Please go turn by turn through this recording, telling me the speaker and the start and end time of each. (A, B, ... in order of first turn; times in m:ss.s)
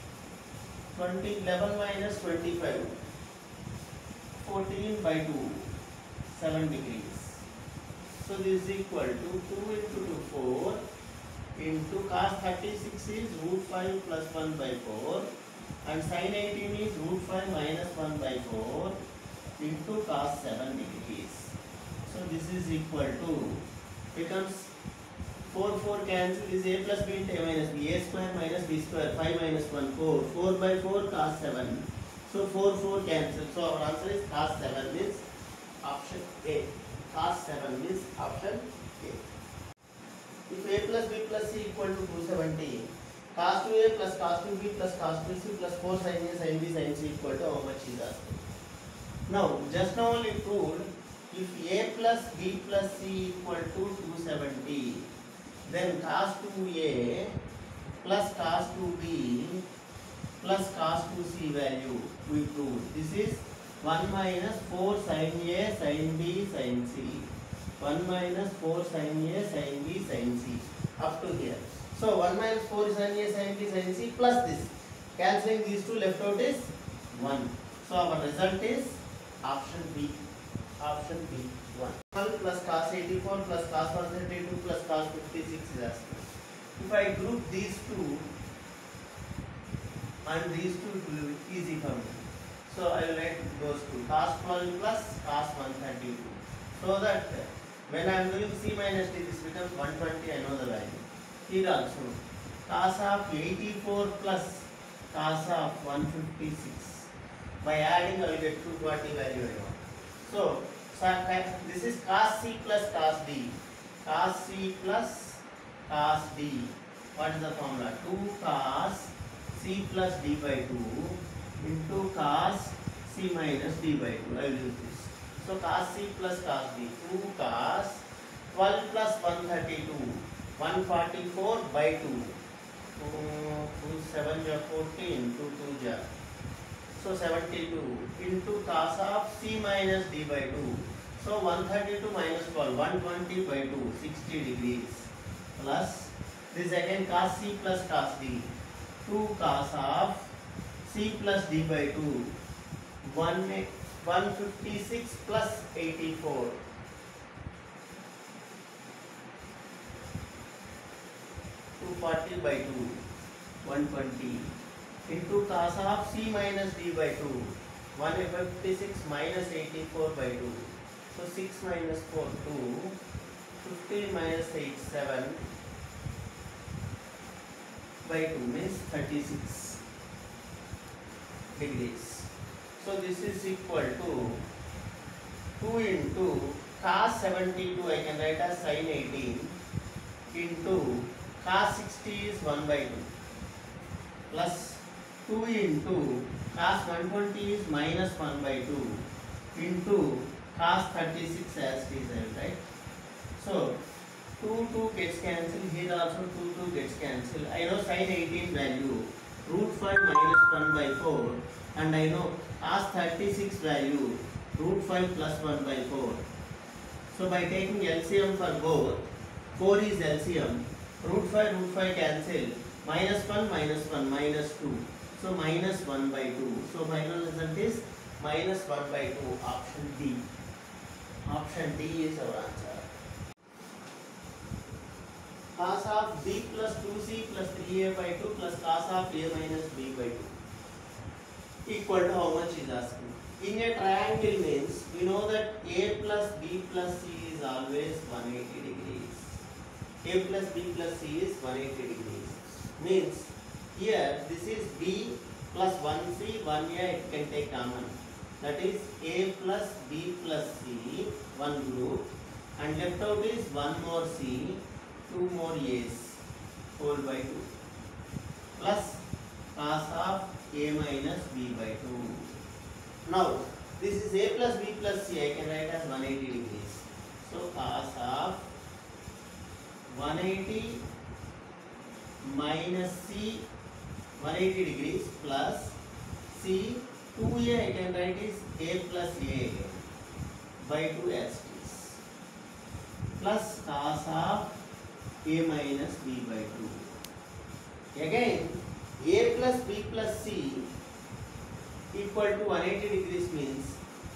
0:00.9-0:03.0 A
0:04.4-0:05.7 A
0:06.3-0:07.4 A
0:08.1-0:10.8 A
0:11.6-0:15.3 A
0:15.8-0:19.0 A
0:19.6-0:21.5 A
0:22.0-0:24.7 A
0:25.5-0:35.3 A
0:35.8-0:39.2 A
0:40.5-0:48.4 A
0:49.3-0:55.1 A
0:55.7-0:57.4 A
0:58.0-0:59.6 A
1:00.4-1:20.2 A
1:20.8-1:28.3 A
1:30.2-1:47.1 A
1:47.6-2:12.4 A
2:13.0-2:16.1 A
2:16.9-2:30.3 A
2:30.8-2:32.3 A
2:33.0-2:36.6 A
2:41.8-2:43.0 A
2:43.6-2:44.6 A
2:45.1-2:53.0 A
2:53.6-2:55.4 A
2:58.0-2:59.8 A
3:01.5-3:04.4 A
3:05.6-3:09.6 A
3:10.3-3:13.1 A
3:14.3-3:22.6 A
3:23.4-3:23.8 A
3:24.4-3:36.2 A
3:37.1-3:50.3 A
3:51.2-3:52.9 A
3:55.6-4:00.4 A
4:01.6-4:09.4 A
4:10.0-4:26.2 A
4:26.8-4:27.5 A
4:28.6-4:32.4 A
4:33.0-4:38.5 A
4:39.9-4:40.8 A
4:42.2-4:43.4 A
4:44.2-4:45.8 A
4:46.3-4:49.8 A
4:50.6-4:52.0 A
4:53.2-4:54.6 A
4:55.2-4:56.9 A
4:57.9-5:00.7 A
5:01.9-5:03.8 A